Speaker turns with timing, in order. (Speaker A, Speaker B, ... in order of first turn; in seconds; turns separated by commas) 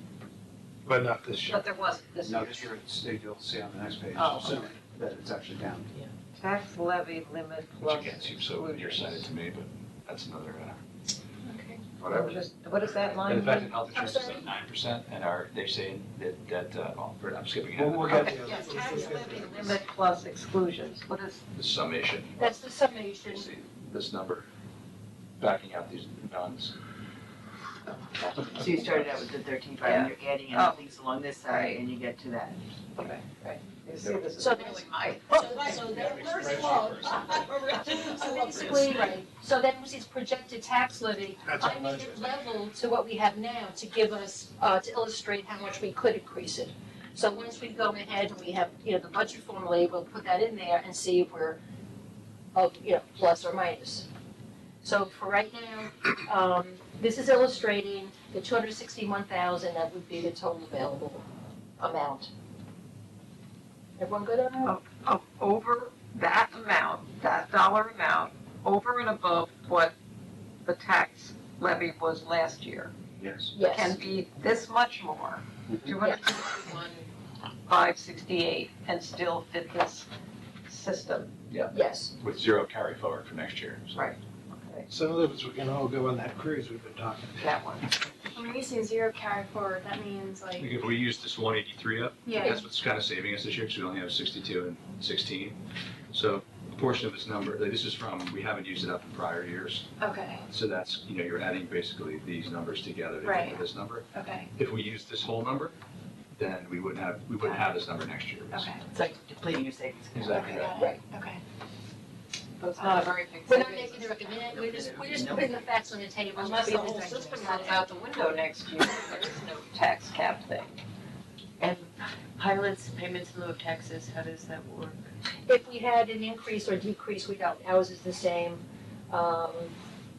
Speaker A: 0.8-1.6, Speaker B: 1.4-2.7, Speaker C: 2.2-5.9, Speaker B: 4.1-4.7, Speaker B: 6.3-9.3, Speaker D: 7.8-10.8, Speaker E: 11.5-11.8, Speaker D: 12.0-12.4, Speaker B: 12.0-13.7, Speaker D: 12.9-18.5, Speaker F: 13.9-14.4, Speaker A: 17.7-19.8, Speaker B: 18.1-21.4, Speaker D: 21.5-22.5, Speaker F: 22.4-23.4, Speaker D: 23.3-24.5, Speaker D: 25.4-26.7, Speaker D: 28.2-29.1, Speaker G: 28.5-32.6, Speaker B: 29.8-30.8, Speaker B: 31.4-31.8, Speaker B: 33.0-39.1, Speaker F: 34.4-51.6, Speaker D: 35.9-37.1, Speaker A: 36.0-37.0, Speaker A: 41.4-42.3, Speaker F: 52.5-54.1, Speaker F: 54.8-61.2, Speaker F: 61.8-62.3, Speaker F: 64.0-64.7, Speaker B: 64.6-69.9, Speaker B: 70.6-72.9, Speaker C: 73.2-73.5, Speaker F: 73.5-74.0, Speaker B: 73.5-77.1, Speaker B: 77.7-80.1, Speaker B: 80.7-81.3, Speaker D: 81.5-84.1, Speaker F: 81.7-82.1, Speaker B: 83.9-84.9, Speaker A: 84.9-87.4, Speaker B: 87.4-87.9, Speaker E: 88.3-90.8, Speaker D: 90.6-95.6, Speaker E: 92.2-92.7, Speaker D: 96.1-99.9, Speaker E: 100.0-100.5, Speaker D: 100.5-105.7, Speaker E: 103.2-104.5, Speaker D: 106.4-108.7, Speaker E: 108.5-108.8, Speaker G: 108.9-110.6, Speaker D: 110.1-110.8, Speaker E: 110.3-111.4, Speaker B: 112.6-114.4, Speaker E: 112.8-113.0, Speaker F: 113.5-117.8, Speaker G: 114.4-115.7, Speaker B: 116.3-120.8, Speaker G: 121.6-125.0, Speaker F: 125.5-129.7